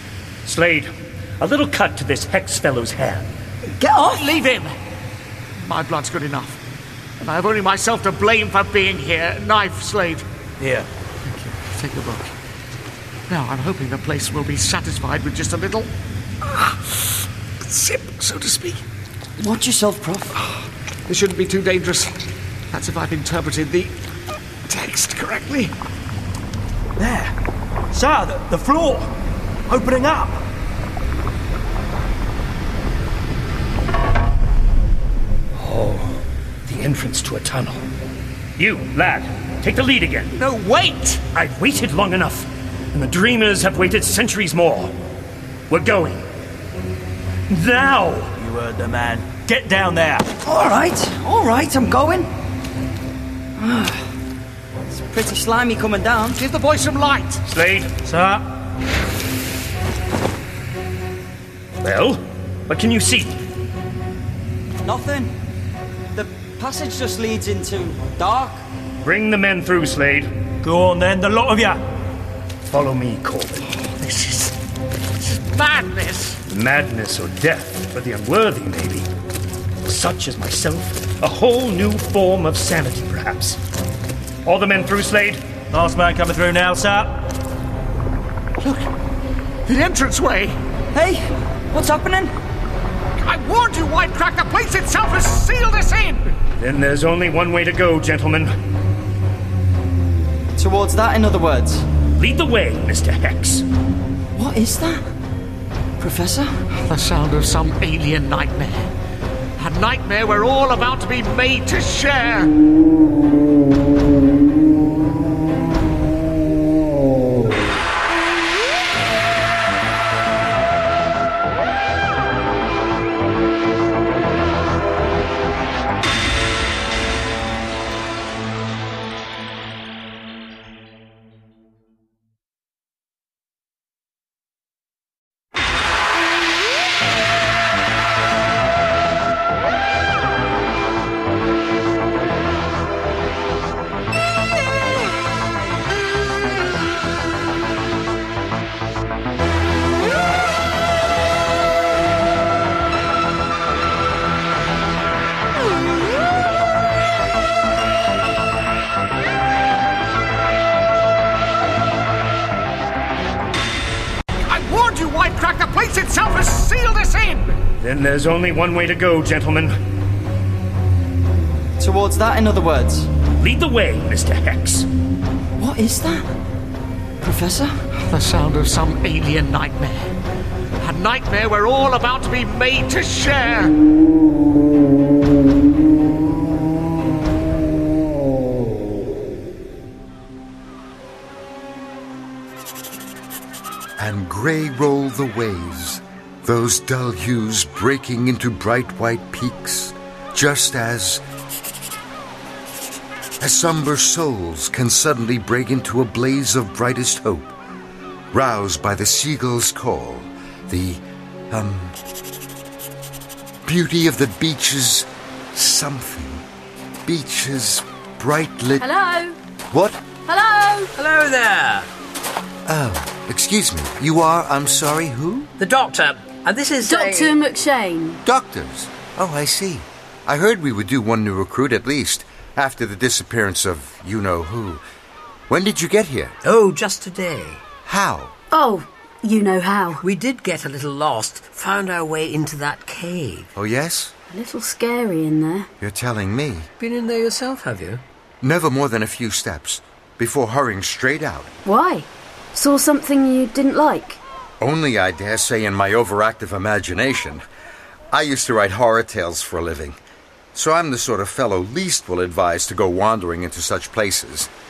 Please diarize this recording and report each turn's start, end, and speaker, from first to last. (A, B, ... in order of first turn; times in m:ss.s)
0:00.4-0:03.4 A
0:03.6-0:04.4 B
0:04.2-0:04.8 C
0:05.6-0:06.6 C
0:07.2-0:10.2 C
0:11.2-0:12.3 C
0:13.3-0:15.9 C
0:16.4-0:18.8 C
0:19.4-0:20.4 B
0:21.1-0:22.2 C
0:22.7-0:24.0 C
0:24.7-0:25.7 C
0:27.0-0:27.3 D
0:27.9-0:29.1 D
0:29.7-0:30.4 D
0:35.5-0:37.8 A
0:38.6-0:40.3 A
0:40.3-0:41.2 C
0:41.3-0:44.9 A
0:45.7-0:46.3 A
0:47.5-0:48.3 A
0:48.4-0:50.3 D
0:50.4-0:52.3 B
0:53.6-0:54.1 B
0:54.9-0:56.4 B
0:56.3-0:57.4 C
0:57.4-0:57.9 A
0:58.0-0:58.4 D
1:01.8-1:03.4 A
1:04.8-1:05.3 B
1:06.1-1:08.6 B
1:09.0-1:10.3 A
1:10.6-1:11.8 D
1:12.7-1:13.7 A
1:13.8-1:14.5 C
1:15.2-1:16.4 C
1:16.5-1:19.1 A
1:19.8-1:23.6 A
1:24.4-1:25.4 A
1:25.7-1:27.3 D
1:28.6-1:28.9 C
1:29.6-1:30.6 C
1:30.9-1:32.3 B
1:33.2-1:36.3 C
1:36.6-1:38.5 A
1:40.6-1:41.8 B
1:42.2-1:43.6 A
1:44.3-1:45.0 B
1:46.0-1:46.7 B
1:46.8-1:48.9 C
1:49.6-1:52.5 C
2:44.5-2:47.6 C
2:47.8-2:49.8 A
2:51.8-2:53.1 B
2:53.4-2:54.9 A
2:55.6-2:56.3 B
2:57.2-2:57.9 B
2:58.1-3:00.2 C
3:00.8-3:03.8 C
3:14.0-3:21.2 E
3:23.4-3:27.5 E
3:28.3-3:32.0 E
3:33.6-3:36.4 E
3:37.0-3:38.9 E
3:38.8-3:39.4 F
3:39.7-3:40.0 E
3:40.2-3:40.9 F
3:40.9-3:41.9 G
3:42.6-3:45.5 E
3:45.6-3:47.4 G
3:46.8-3:48.2 F
3:48.2-3:54.8 E
3:55.5-3:56.4 E
3:56.4-3:57.6 G
3:57.8-3:58.3 E
3:58.5-4:00.0 F
4:00.0-4:03.5 G
4:03.5-4:04.1 E
4:04.3-4:05.7 F
4:05.8-4:06.7 E
4:06.8-4:08.0 G
4:08.4-4:11.5 E
4:11.6-4:14.2 F
4:14.6-4:17.4 E
4:18.1-4:20.0 E
4:20.5-4:24.5 E